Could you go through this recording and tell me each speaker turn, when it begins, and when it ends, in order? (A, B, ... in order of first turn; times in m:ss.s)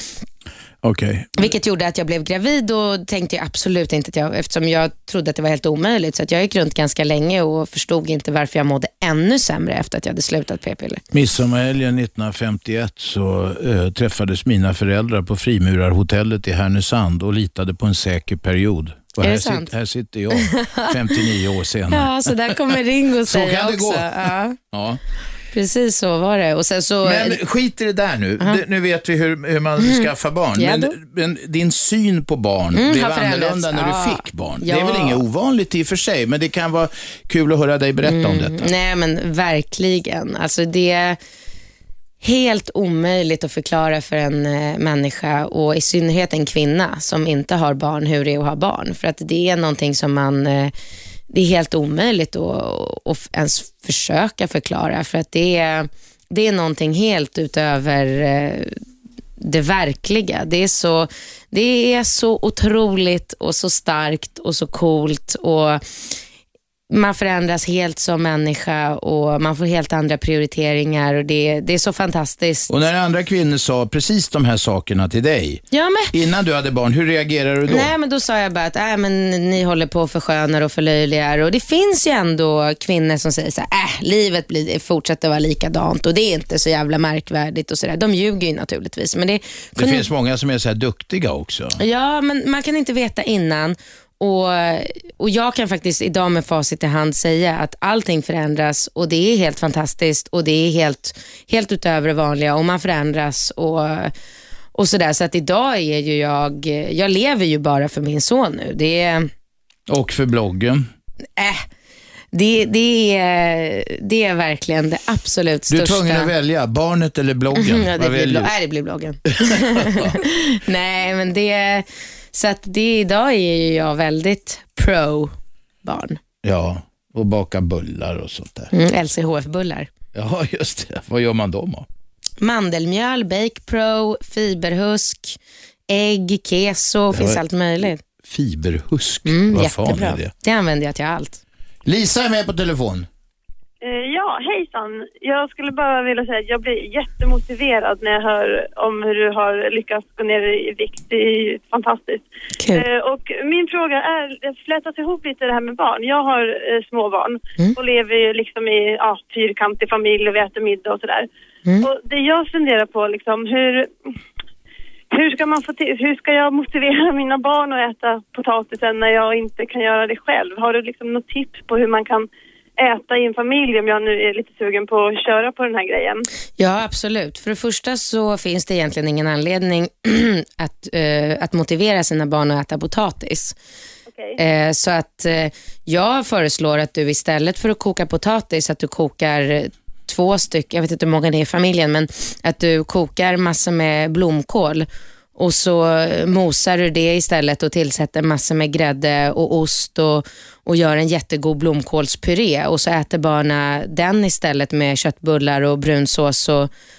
0:00.8-0:01.4 A
0:01.4-0:11.0 B
0:11.1-0:22.1 A
0:19.2-0:19.7 B
0:20.3-0:21.2 B
0:21.9-0:24.6 B
0:23.2-0:24.1 A
0:24.7-0:25.0 A
0:25.5-0:27.4 B
0:27.0-0:38.7 A
0:29.8-0:30.9 B
0:32.7-0:35.2 B
0:38.0-0:41.2 B
0:42.2-0:50.7 B
0:51.3-0:58.8 B
0:59.4-1:05.8 B
1:06.9-1:12.7 B
1:12.7-1:17.9 A
1:15.7-1:16.1 B
1:17.7-1:30.1 B
1:29.8-1:31.8 A
1:31.8-1:44.1 B
1:44.7-1:49.3 B
1:49.9-1:50.8 A
1:51.4-1:51.6 B
1:52.3-1:56.3 B
1:55.7-1:58.5 A
1:57.5-2:06.2 B
1:59.4-2:00.2 A
2:06.4-2:08.7 A
2:08.7-2:09.9 B
2:10.1-2:11.8 A
2:12.4-2:15.4 B
2:15.9-2:18.0 B
2:17.1-2:17.4 A
2:18.2-2:20.3 A
2:19.2-2:21.4 B
2:21.8-2:23.1 A
2:23.8-2:41.3 C
2:32.6-2:32.8 B
2:41.8-2:43.9 C
2:45.1-2:56.2 C
2:56.6-3:03.5 B
3:04.1-3:04.4 C
3:04.4-3:26.7 B